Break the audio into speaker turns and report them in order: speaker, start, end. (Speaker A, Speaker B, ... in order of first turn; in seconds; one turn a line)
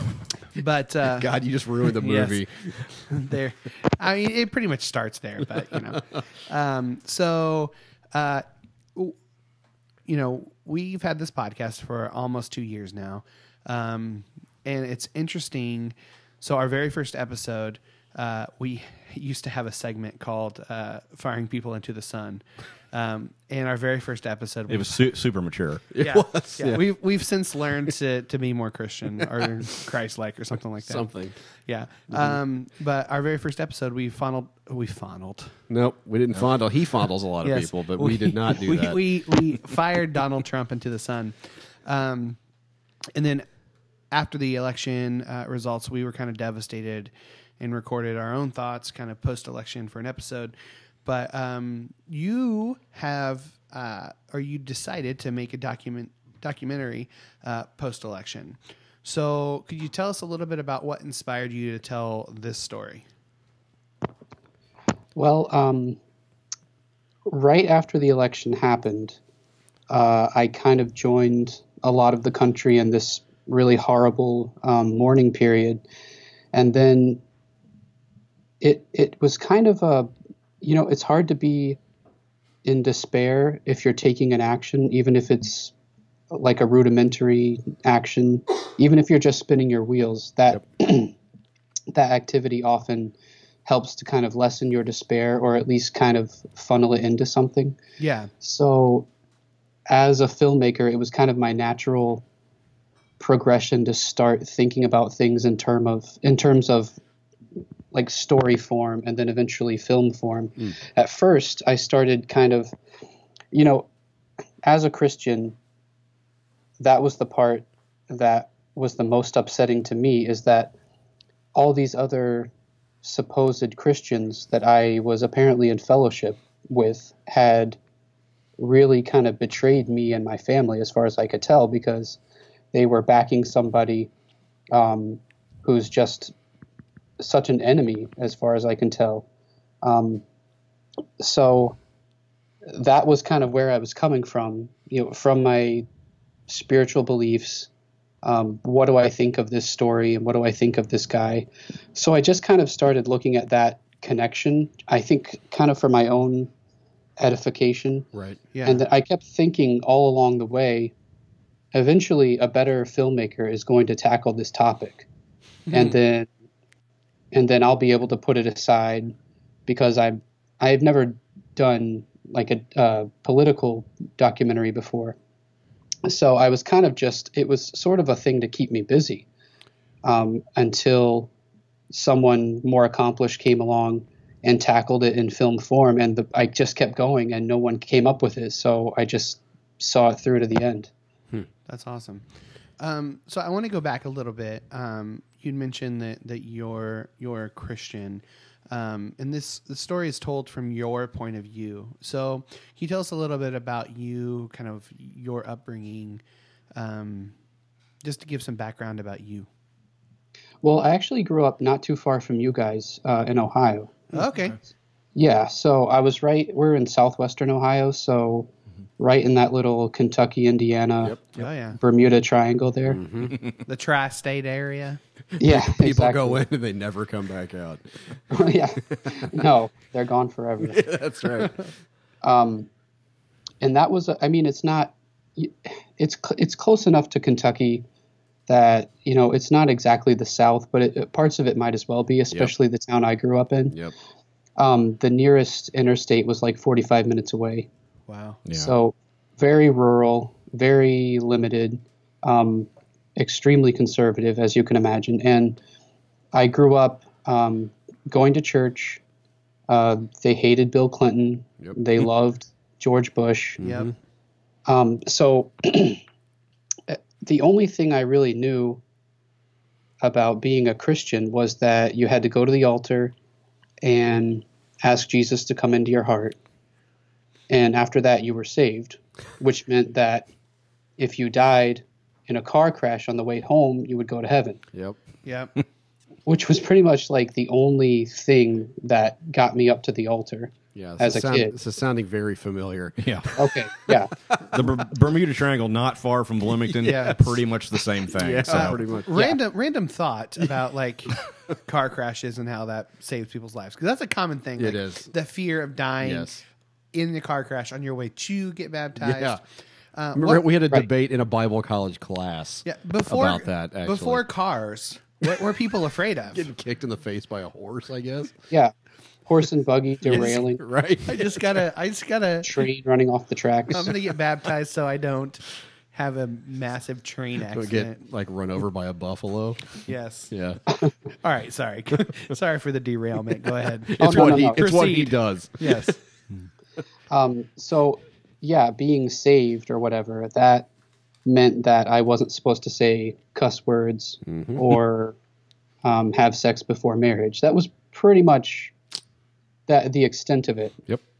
Speaker A: 0.5-1.3
Speaker B: 1.1-2.8
Speaker A: 2.0-9.2
Speaker A: 10.1-25.0
Speaker C: 24.7-25.9
Speaker B: 25.9-26.8
Speaker A: 26.0-31.1
Speaker B: 30.8-31.4
Speaker A: 31.7-35.5
Speaker B: 35.7-39.3
Speaker A: 37.4-42.4
Speaker A: 43.1-43.5
Speaker A: 44.1-63.0
Speaker D: 65.2-66.0
Speaker D: 67.3-69.2
Speaker D: 69.9-75.8
Speaker D: 76.5-77.2
Speaker D: 78.6-81.8
Speaker D: 82.7-85.7
Speaker D: 86.3-91.1
Speaker D: 91.9-93.1
Speaker D: 93.7-97.8
Speaker A: 98.0-98.3
Speaker D: 98.4-99.1
Speaker D: 99.9-102.2
Speaker D: 103.2-107.0
Speaker D: 107.9-112.8
Speaker D: 113.5-113.9
Speaker D: 114.6-115.6
Speaker D: 116.8-120.7
Speaker D: 121.5-122.5
Speaker D: 123.0-127.8
Speaker D: 128.6-132.2
Speaker D: 132.7-134.1
Speaker D: 134.7-136.3
Speaker D: 137.2-139.2
Speaker D: 139.8-140.2
Speaker D: 141.2-141.8
Speaker D: 142.7-145.9
Speaker D: 146.5-147.7
Speaker D: 148.2-156.5
Speaker D: 157.2-158.1
Speaker B: 158.1-158.4
Speaker A: 158.5-158.8
Speaker D: 158.7-160.9
Speaker D: 161.7-165.1
Speaker D: 165.7-166.3
Speaker D: 167.3-169.2
Speaker D: 169.7-175.2
Speaker D: 176.1-179.3
Speaker D: 180.0-181.3
Speaker D: 181.9-190.9
Speaker A: 191.7-192.2
Speaker A: 192.8-206.2
Speaker A: 206.8-207.3
Speaker A: 208.0-209.5
Speaker D: 210.6-214.1
Speaker A: 214.1-214.6
Speaker D: 215.2-221.2
Speaker A: 221.3-221.8
Speaker D: 221.8-223.1
Speaker B: 222.9-223.4
Speaker A: 223.7-225.0
Speaker B: 225.4-227.8
Speaker D: 225.4-226.4
Speaker D: 228.3-230.9
Speaker B: 228.8-229.4
Speaker B: 230.6-231.6
Speaker D: 232.2-232.7
Speaker D: 233.6-237.8
Speaker D: 238.5-243.8
Speaker D: 244.6-247.7
Speaker A: 248.1-248.4
Speaker C: 248.5-248.7
Speaker D: 248.5-255.6
Speaker D: 256.3-259.0
Speaker D: 259.7-263.6
Speaker B: 261.6-262.1
Speaker B: 263.6-263.9
Speaker A: 263.6-263.9
Speaker D: 264.7-266.0
Speaker D: 266.9-268.8
Speaker D: 270.0-273.1
Speaker D: 273.8-276.4
Speaker D: 277.5-280.3
Speaker D: 281.0-284.6
Speaker A: 285.2-285.5
Speaker D: 286.3-291.5
Speaker B: 290.8-293.3
Speaker C: 293.0-293.3
Speaker D: 293.4-294.1
Speaker B: 293.9-294.5
Speaker C: 294.5-298.8
Speaker A: 296.8-297.2
Speaker B: 298.1-299.1
Speaker A: 298.5-306.3
Speaker B: 304.6-305.1
Speaker B: 306.0-306.4
Speaker A: 306.9-309.4
Speaker B: 309.0-309.4
Speaker A: 309.9-310.5
Speaker B: 310.1-314.2
Speaker A: 312.6-316.5
Speaker B: 316.3-318.4
Speaker D: 319.3-320.6
Speaker B: 320.1-321.4
Speaker A: 321.1-322.6
Speaker D: 322.4-323.9
Speaker A: 323.7-325.4
Speaker A: 325.9-328.0
Speaker B: 327.5-330.6
Speaker A: 329.9-330.3
Speaker A: 331.2-336.0
Speaker B: 333.9-335.9
Speaker D: 334.0-334.6
Speaker D: 337.1-340.7
Speaker D: 341.2-345.2
Speaker B: 344.3-344.8
Speaker D: 345.8-348.7
Speaker D: 349.7-350.8